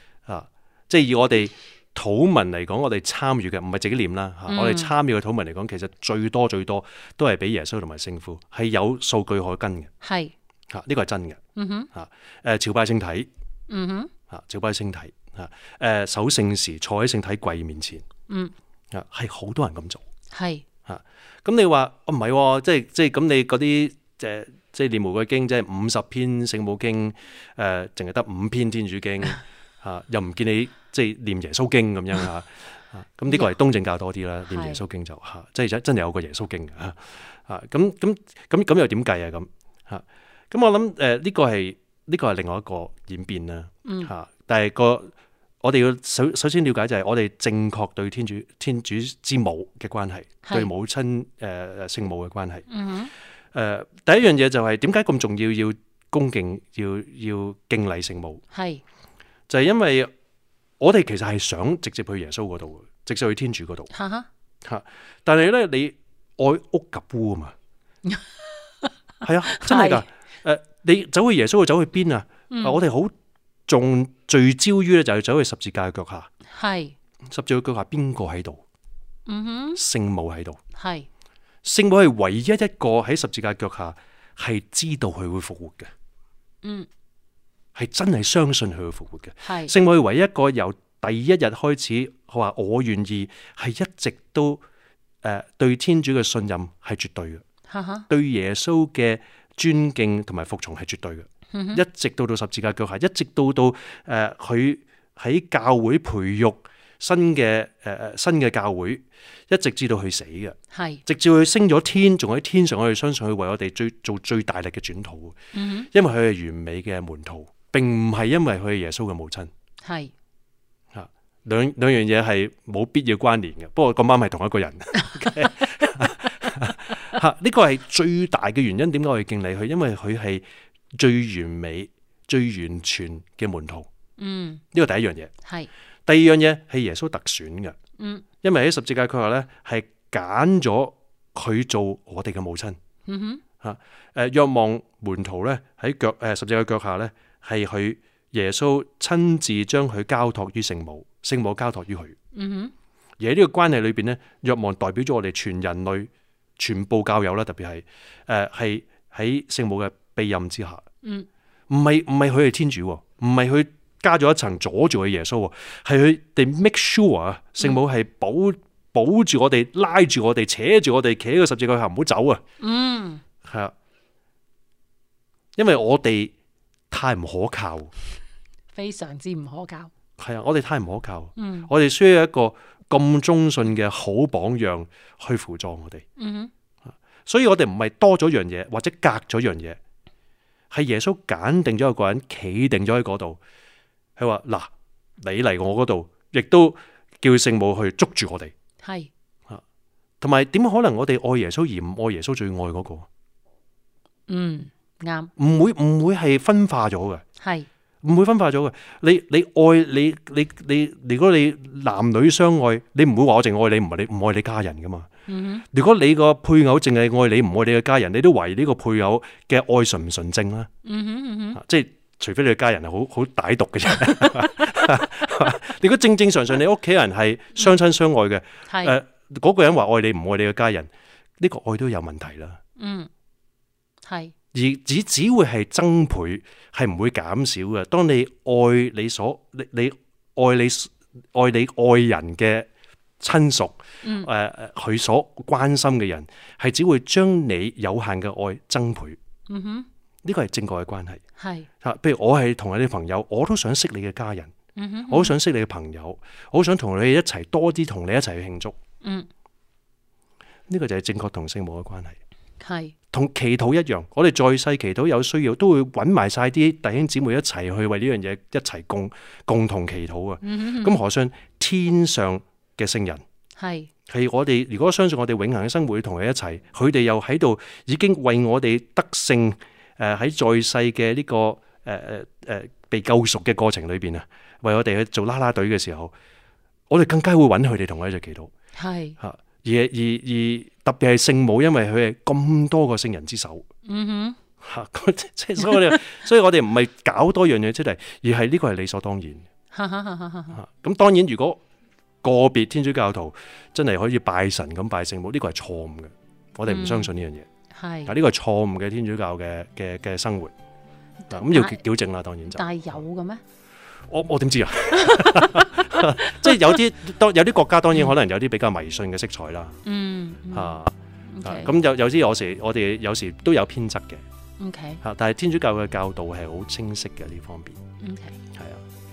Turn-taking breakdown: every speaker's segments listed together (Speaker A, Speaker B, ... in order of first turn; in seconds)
Speaker A: 0.2-9.9, 10.7-11.4, 11.9-13.3, 14.3-18.1, 18.9-20.0, 20.9-52.6, 53.5-58.4, 59.5-60.1, 60.8-63.9, 64.6-67.5, 69.2-73.1, 73.7-76.3, 77.3-78.6, 79.8-80.6, 81.6-85.9, 87.7-94.6, 95.2-97.4, 98.1-110.5, 111.0-115.4, 115.9-119.5, 120.9-130.4, 130.9-133.9, 134.7-135.3, 136.1-137.7, 138.4-142.8, 143.6-152.2, 153.2-160.8, 161.7-172.4, 173.4-173.7, 175.6-176.3, 176.9-177.9, 180.2-186.0, 187.2-189.8, 190.7-193.4, 194.2-198.5, 200.2-203.1, 205.4-207.2, 208.0-215.1, 215.7-220.7, 221.5-232.6, 234.5-242.7, 243.2-249.2, 250.2-251.2, 251.8-254.5, 255.1-258.8, 260.7-262.2, 263.1-273.2, 274.1-286.1, 286.9-288.5, 289.2-293.6, 294.6-299.4, 300.5-301.6, 302.2-307.5, 308.1-310.5, 311.3-312.6, 314.1-319.8, 320.5-320.9, 321.4-324.2, 325.0-327.8, 328.5-328.8
Speaker B: 4.5-4.9, 10.0-10.3, 11.6-11.9, 13.7-14.1, 20.3-20.6, 34.5-34.8, 43.8-44.1, 52.7-53.1, 58.5-58.8, 63.9-64.3, 69.5-70.0, 72.5-72.8, 76.5-76.9, 79.3-79.8, 80.7-81.1, 89.4-89.7, 97.7-98.1, 101.5-101.8, 110.7-111.0, 115.5-115.9, 119.8-120.1, 134.2-134.6, 138.0-138.2, 143.1-143.4, 152.3-152.7, 161.0-161.3, 172.6-173.2, 178.7-179.9, 181.4-181.7, 186.2-186.5, 198.8-199.1, 204.3-205.3, 207.4-207.7, 215.3-215.6, 220.8-221.6, 228.7-228.9, 232.8-233.1, 234.1-234.3, 244.0-244.3, 249.5-249.9, 251.4-251.7, 254.8-255.3, 259.0-259.3, 262.6-262.9, 270.4-271.0, 273.6-273.9, 288.8-289.2, 293.9-294.4, 299.7-300.6, 306.7-307.1, 307.7-308.1, 311.3-311.8, 312.5-313.4, 315.1-316.6, 319.8-321.7, 324.6-325.0, 328.0-328.3